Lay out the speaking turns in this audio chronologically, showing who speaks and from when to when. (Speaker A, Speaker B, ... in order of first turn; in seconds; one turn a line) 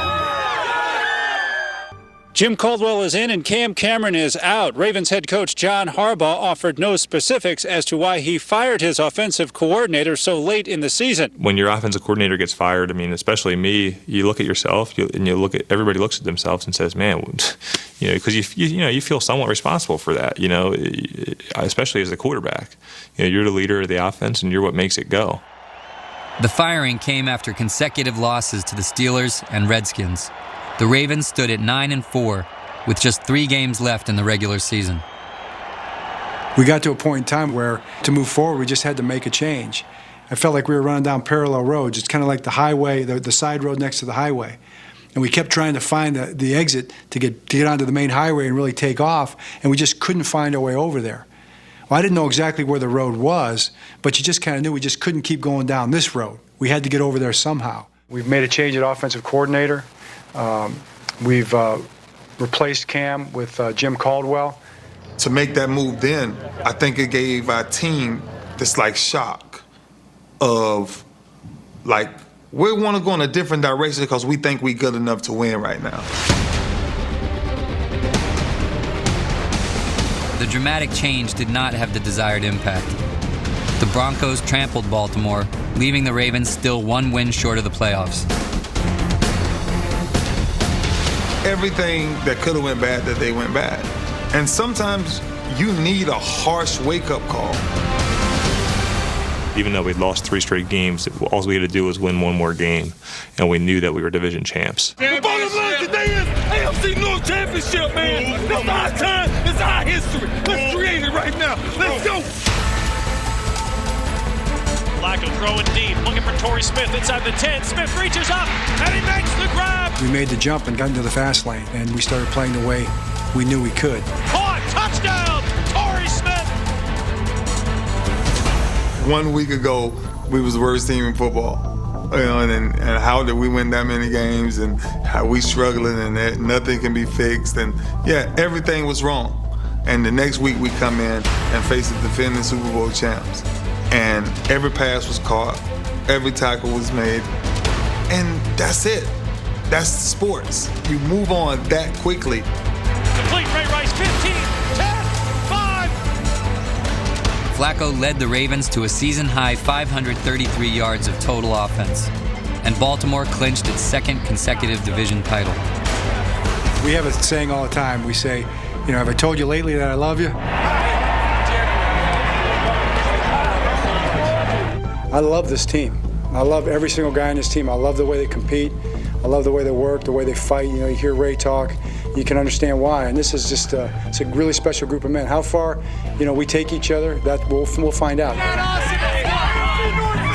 Speaker A: 2.3-11.3
Speaker B: 11.4-25.4
Speaker C: 26.4-35.0
Speaker D: 36.5-44.6
Speaker D: 45.1-51.3
Speaker D: 51.9-64.6
Speaker E: 65.2-69.6
Speaker E: 70.4-71.0
Speaker E: 71.8-76.1
Speaker C: 80.3-83.0
Speaker C: 83.8-88.3
Speaker E: 91.4-97.6
Speaker B: 99.5-105.0
Speaker F: 105.0-112.3
Speaker G: 115.0-120.0
Speaker D: 120.0-124.1
Speaker G: 124.2-126.6
Speaker E: 129.0-147.3
Speaker E: 148.1-149.2
Speaker E: 149.7-152.5
Speaker G: 153.1-156.0
Speaker C: 157.5-162.1
Speaker C: 162.6-165.6
Speaker D: 166.8-170.4
Speaker D: 175.1-188.6